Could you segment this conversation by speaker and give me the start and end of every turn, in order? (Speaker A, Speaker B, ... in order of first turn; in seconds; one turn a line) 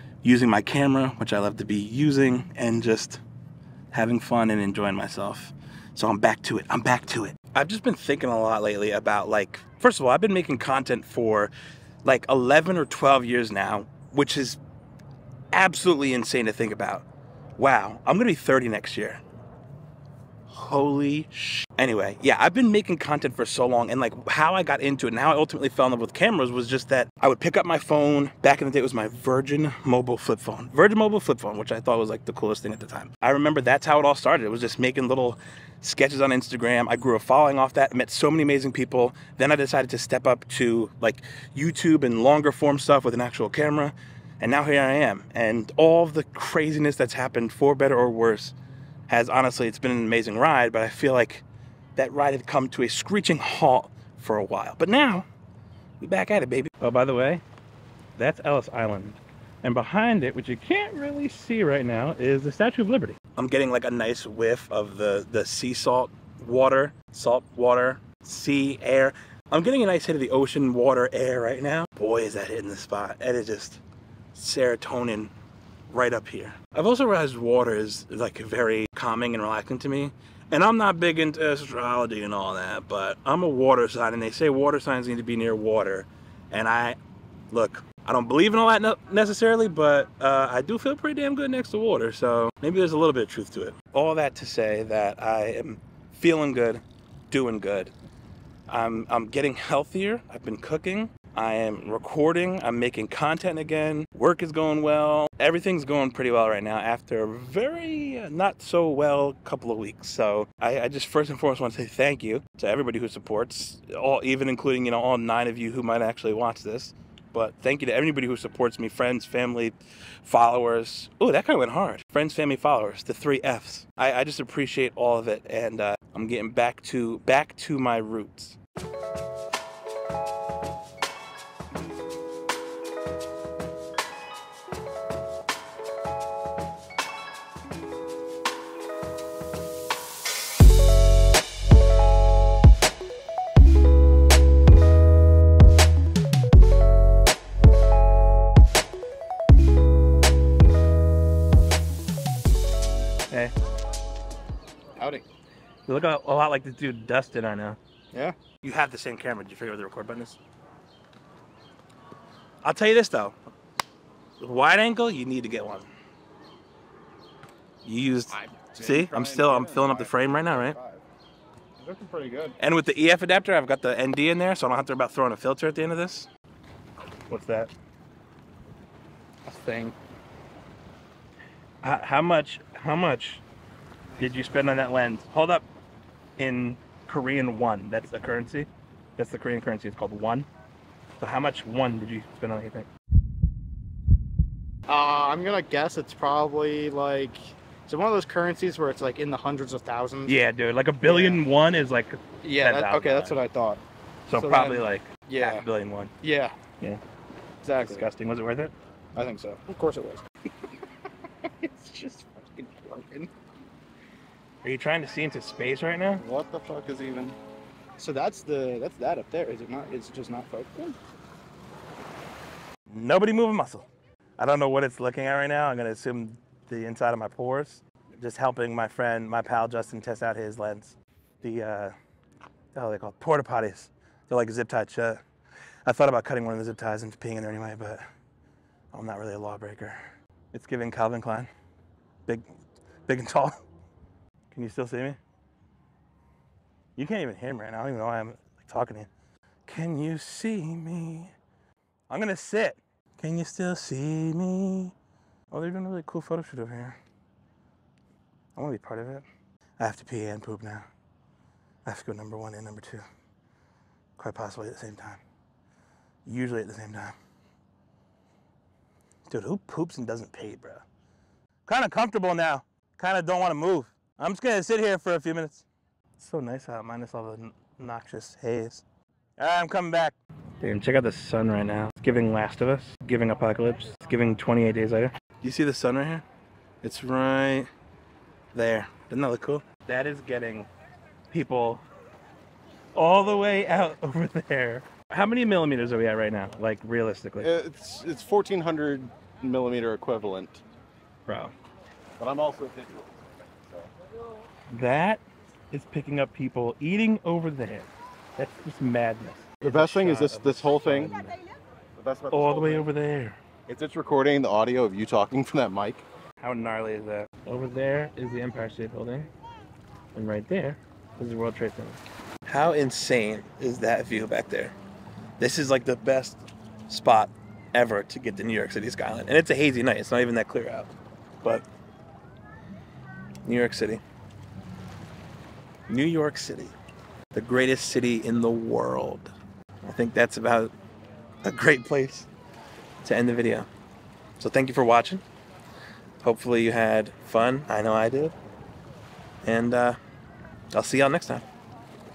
Speaker A: 0.2-3.2
Speaker A: 3.9-11.5
Speaker A: 12.1-14.6
Speaker A: 15.5-17.1
Speaker A: 17.6-19.2
Speaker A: 20.5-48.6
Speaker A: 49.1-51.5
Speaker A: 52.0-55.3
Speaker A: 56.0-57.4
Speaker A: 58.2-73.8
Speaker A: 74.3-75.3
Speaker A: 75.9-87.0
Speaker A: 87.5-97.9
Speaker A: 98.7-128.6
Speaker B: 155.0-155.2
Speaker A: 155.9-157.8
Speaker A: 158.6-160.4
Speaker A: 162.6-163.4
Speaker A: 164.4-165.9
Speaker A: 167.8-170.8
Speaker C: 168.4-171.0
Speaker B: 171.9-172.5
Speaker A: 172.6-176.3
Speaker A: 177.3-177.7
Speaker A: 179.4-179.9
Speaker A: 181.8-183.4
Speaker A: 184.2-185.7
Speaker A: 186.4-190.5
Speaker A: 191.2-192.9
Speaker B: 194.9-200.4
Speaker A: 200.3-203.4
Speaker B: 201.0-201.4
Speaker B: 202.4-203.8
Speaker A: 204.3-206.1
Speaker B: 204.3-205.6
Speaker B: 206.2-206.6
Speaker B: 207.6-208.1
Speaker A: 207.8-208.7
Speaker B: 209.2-210.2
Speaker B: 211.6-213.3
Speaker A: 214.6-216.2
Speaker B: 216.2-217.4
Speaker B: 218.0-221.0
Speaker A: 222.9-223.9
Speaker A: 224.4-231.9
Speaker A: 232.7-235.2
Speaker A: 235.9-238.0
Speaker A: 238.9-240.0
Speaker A: 240.5-241.5
Speaker A: 243.1-243.6
Speaker A: 244.5-245.2
Speaker A: 246.9-249.1
Speaker A: 249.7-251.3
Speaker A: 252.1-254.9
Speaker A: 255.5-257.0
Speaker A: 258.6-259.2
Speaker A: 259.8-260.9
Speaker A: 261.8-263.0
Speaker A: 264.2-265.2
Speaker A: 266.2-267.2
Speaker A: 269.3-270.8
Speaker A: 271.7-275.7
Speaker A: 276.2-278.8
Speaker A: 279.4-286.2
Speaker A: 286.8-287.7
Speaker A: 288.5-290.7
Speaker A: 291.3-291.8
Speaker A: 292.9-297.5
Speaker C: 297.4-300.6
Speaker A: 301.3-301.5
Speaker C: 302.2-303.2
Speaker A: 304.7-311.4
Speaker C: 309.6-311.1
Speaker C: 312.0-312.9
Speaker A: 312.3-313.4
Speaker C: 313.7-316.1
Speaker A: 316.4-319.3
Speaker A: 320.1-324.8
Speaker A: 325.4-331.6
Speaker A: 333.4-334.0
Speaker A: 335.9-336.8
Speaker A: 337.3-340.7
Speaker A: 341.4-342.3
Speaker A: 343.0-343.7
Speaker A: 344.4-345.2
Speaker A: 346.2-348.3
Speaker A: 349.4-350.0
Speaker A: 350.7-351.4